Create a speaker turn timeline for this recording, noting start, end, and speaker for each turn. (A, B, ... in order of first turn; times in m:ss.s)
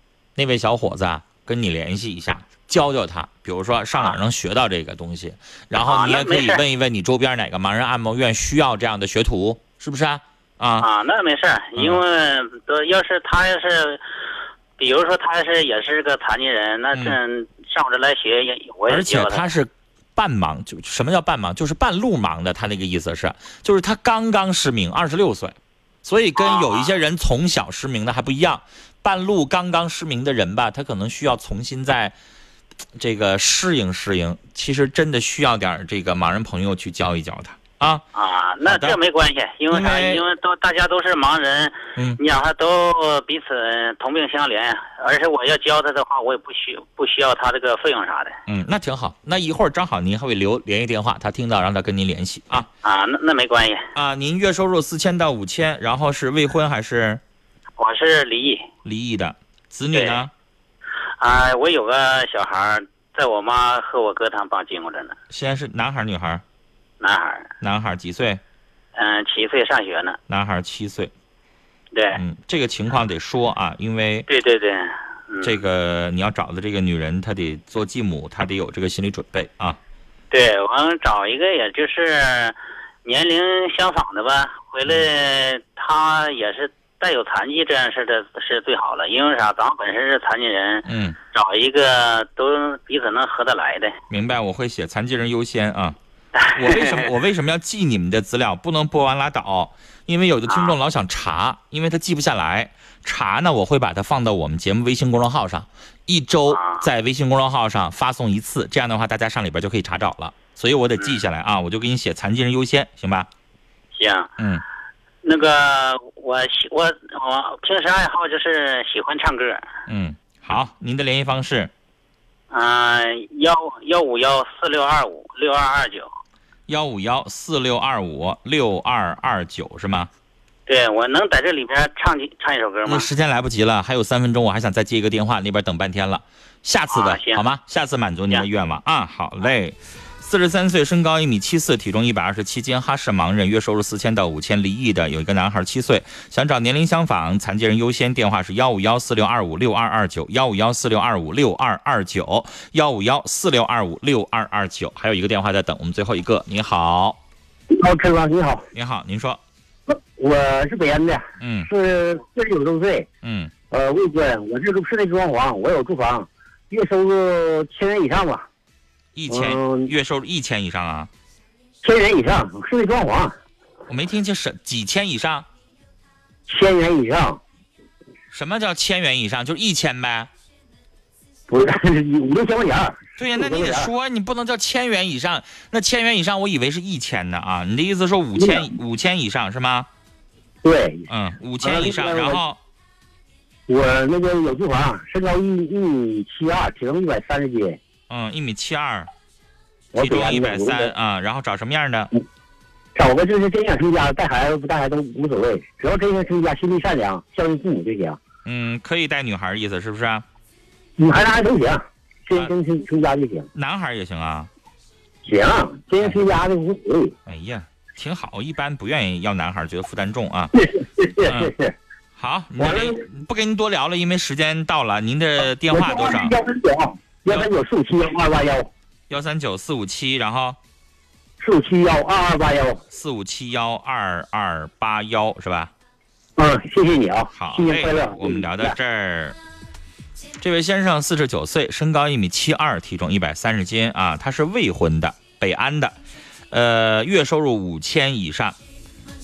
0:00.4-0:10.9 A
0:05.8-0:06.6 B
0:10.8-0:14.0 B
0:11.8-0:12.0 A
0:14.8-0:19.5 B
0:18.9-0:32.2 A
0:26.4-0:26.9 B
0:33.0-0:38.0 A
0:38.2-0:48.4 B
0:38.7-0:39.0 A
0:39.7-0:40.2 A
0:48.5-0:52.7 A
0:52.8-0:53.8 B
0:54.0-0:57.2 A
0:57.8-0:58.6 B
0:58.8-1:00.3 A
0:59.9-1:00.2 B
1:01.2-1:05.2 B
1:05.3-1:06.4 A
1:07.0-1:07.5 B
1:07.6-1:08.4 A
1:09.0-1:10.2 B
1:10.3-1:11.1 A
1:11.9-1:12.2 B
1:12.2-1:14.3 A
1:14.3-1:15.6 B
1:15.4-1:19.8 A
1:20.3-1:34.0 B
1:30.9-1:31.2 A
1:34.1-1:36.0 A
1:36.4-1:37.1 B
1:36.6-1:53.3 A
1:40.5-1:40.8 B
1:46.5-1:46.9 B
1:54.0-1:54.3 B
1:55.2-1:59.6 B
1:59.9-2:01.7 A
2:02.5-2:06.1 B
2:06.7-2:10.1 A
2:10.7-2:13.1 B
2:12.9-2:37.2 A
2:16.9-2:17.4 B
2:37.7-2:38.7 C
2:38.7-2:39.4 A
2:39.9-2:43.1 C
2:41.4-2:41.7 A
2:43.2-2:43.5 A
2:43.7-2:48.5 C
2:49.2-2:51.1 A
2:49.3-2:49.9 C
2:51.8-2:53.3 C
2:53.9-2:55.5 A
2:56.5-2:57.4 C
2:58.3-3:00.3 A
3:01.5-3:03.9 C
3:03.2-3:09.9 A
3:08.4-3:08.7 C
3:10.6-3:11.1 C
3:11.1-3:12.6 A
3:11.6-3:12.4 C
3:13.7-3:17.8 C
3:18.1-3:19.1 A
3:19.9-3:20.9 C
3:20.0-3:22.1 A
3:23.0-3:28.2 C
3:28.4-3:30.2 A
3:31.0-3:33.5 C
3:33.6-3:34.5 A
3:35.2-3:37.1 C
3:37.3-3:40.5 A
3:40.5-3:41.8 C
3:41.3-3:41.5 A
3:42.2-3:46.3 A
3:42.6-3:43.0 C
3:45.7-3:48.7 C
3:49.1-3:50.6 A
3:51.4-3:52.8 C
3:52.9-3:55.7 A
3:56.4-3:58.8 C
3:57.4-3:59.4 A
4:00.4-4:06.0 A
4:06.5-4:08.6 A